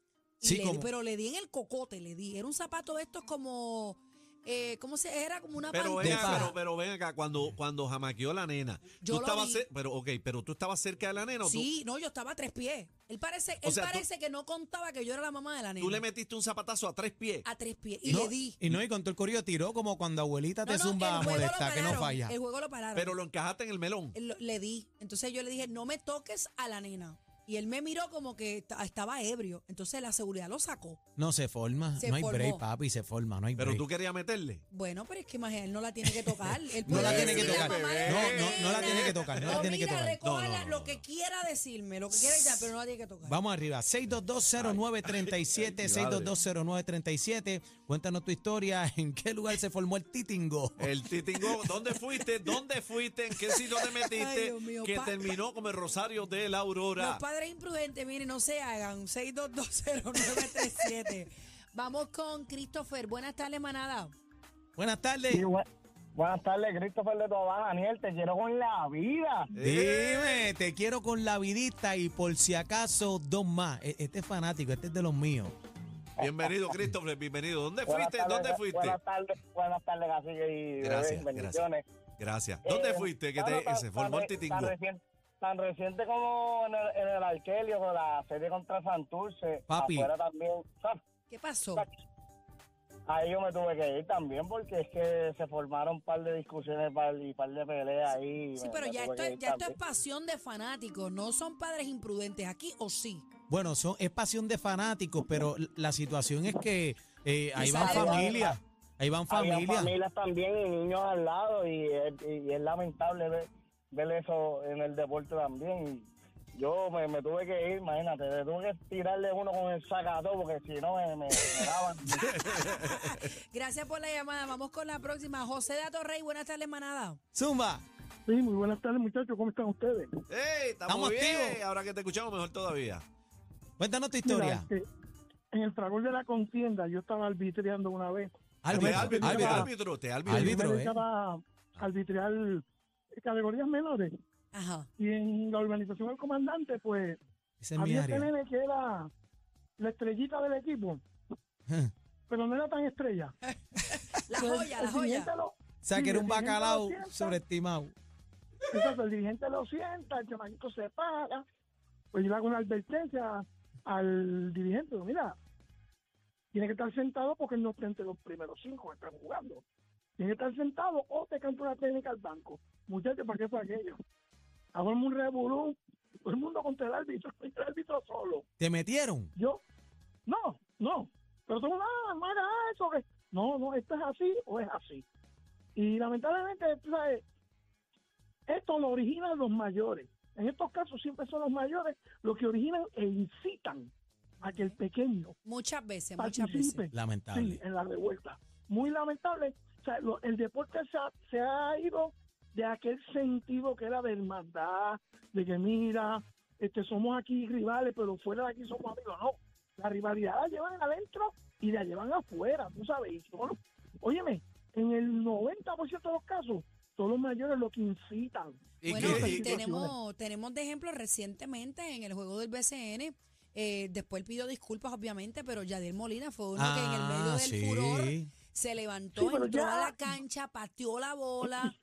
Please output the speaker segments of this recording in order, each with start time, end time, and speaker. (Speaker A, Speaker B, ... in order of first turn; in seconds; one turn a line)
Speaker A: 0.4-6.6
Speaker B: 0.4-0.9
Speaker C: 5.7-11.7
Speaker B: 6.0-6.5
Speaker A: 9.0-9.6
Speaker A: 11.4-16.0
Speaker C: 13.6-14.1
Speaker C: 15.8-17.5
Speaker A: 17.4-18.6
Speaker B: 18.1-22.4
Speaker A: 20.6-23.2
Speaker C: 22.9-24.2
Speaker A: 24.1-31.0
Speaker B: 31.2-33.9
Speaker A: 32.0-32.6
Speaker C: 33.6-34.6
Speaker A: 34.7-43.4
Speaker B: 36.9-40.2
Speaker C: 36.9-39.6
Speaker C: 40.2-41.0
Speaker B: 43.2-50.9
Speaker C: 44.6-46.3
Speaker C: 50.8-57.2
Speaker A: 53.9-55.3
Speaker A: 57.0-64.1
Speaker B: 64.8-65.4
Speaker D: 65.3-65.7
Speaker D: 66.2-69.5
Speaker C: 69.5-70.5
Speaker B: 69.6-75.5
Speaker C: 76.2-79.0
Speaker D: 76.2-76.6
Speaker D: 77.9-81.8
Speaker C: 80.8-81.6
Speaker C: 82.2-84.8
Speaker D: 82.6-91.0
Speaker B: 89.7-90.1
Speaker A: 91.3-91.9
Speaker D: 93.1-99.8
Speaker A: 98.6-103.3
Speaker B: 103.5-109.9
Speaker A: 107.6-108.5
Speaker D: 107.6-108.6
Speaker D: 109.3-122.5
Speaker C: 122.2-123.3
Speaker A: 122.5-127.2
Speaker B: 127.3-127.8
Speaker E: 128.3-130.1
Speaker C: 130.3-133.0
Speaker B: 130.9-131.6
Speaker B: 133.8-134.7
Speaker E: 134.2-134.9
Speaker E: 135.5-139.7
Speaker B: 138.6-139.7
Speaker C: 138.7-140.6
Speaker B: 140.3-141.0
Speaker E: 140.3-144.1
Speaker A: 144.5-144.9
Speaker E: 145.0-147.2
Speaker B: 147.6-148.3
Speaker E: 147.8-149.1
Speaker E: 149.8-151.0
Speaker B: 151.7-151.9
Speaker E: 152.3-153.3
Speaker A: 153.5-155.3
Speaker E: 154.3-157.4
Speaker B: 155.8-157.9
Speaker E: 158.7-161.4
Speaker E: 162.1-165.3
Speaker E: 166.5-169.6
Speaker E: 170.2-174.0
Speaker E: 174.7-178.4
Speaker B: 178.6-179.3
Speaker E: 179.3-179.6
Speaker E: 180.3-185.1
Speaker E: 185.8-187.2
Speaker E: 188.5-193.9
Speaker E: 194.4-195.3
Speaker A: 195.4-196.9
Speaker E: 196.2-219.9
Speaker B: 196.9-197.6
Speaker C: 218.8-219.6
Speaker A: 218.8-231.7
Speaker B: 226.6-228.3
Speaker E: 229.2-230.0